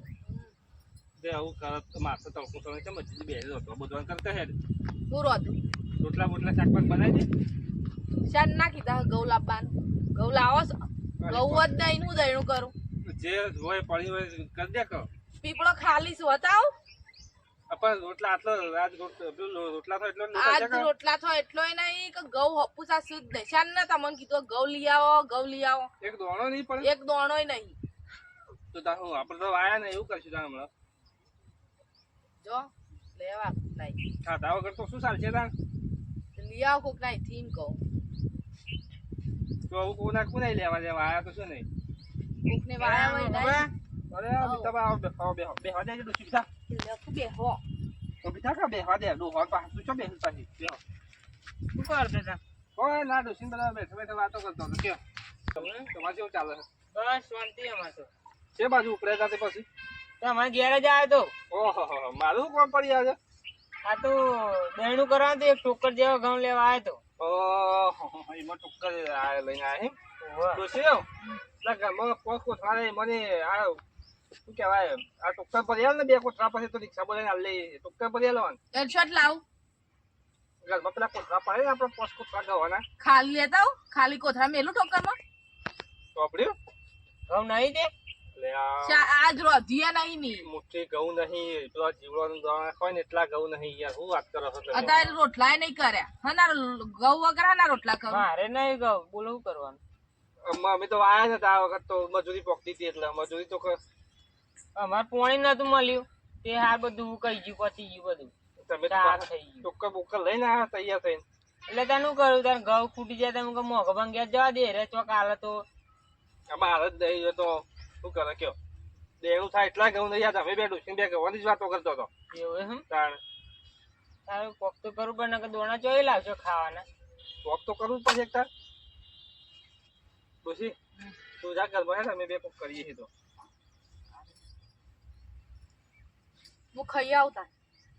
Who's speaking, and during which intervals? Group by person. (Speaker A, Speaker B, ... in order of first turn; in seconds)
Speaker A: 1.2-4.5, 6.0-7.3, 11.2-11.8, 13.0-15.1, 17.7-20.9, 26.0-26.9, 28.7-30.7, 34.2-35.5, 39.7-41.7, 44.1-46.5, 48.2-50.8, 52.8-55.0, 55.5-56.6, 58.5-59.6, 61.5-63.2, 67.2-70.0, 70.5-71.0, 71.6-73.8, 74.5-78.6, 80.6-82.8, 86.1-86.5, 88.3-89.1, 90.4-95.0, 100.4-103.8, 108.6-111.2, 116.5-118.6, 119.2-122.1, 122.9-123.2, 127.4-128.5, 130.4-130.8, 131.4-133.1
Speaker B: 5.1-5.6, 8.3-12.7, 15.4-16.7, 20.3-25.9, 26.8-27.8, 32.4-34.0, 36.4-37.8, 42.5-43.7, 44.4-44.7, 46.7-47.6, 78.7-79.4, 83.0-85.2, 88.8-90.5, 94.7-98.3, 136.7-137.5
Speaker C: 42.8-43.7, 51.7-52.4, 55.5-55.9, 56.9-58.1, 60.2-61.3, 63.8-67.0, 70.2-70.6, 87.3-87.9, 94.7-95.2, 98.1-99.8, 104.8-108.3, 108.9-109.7, 111.7-115.7, 122.3-122.8, 124.2-126.8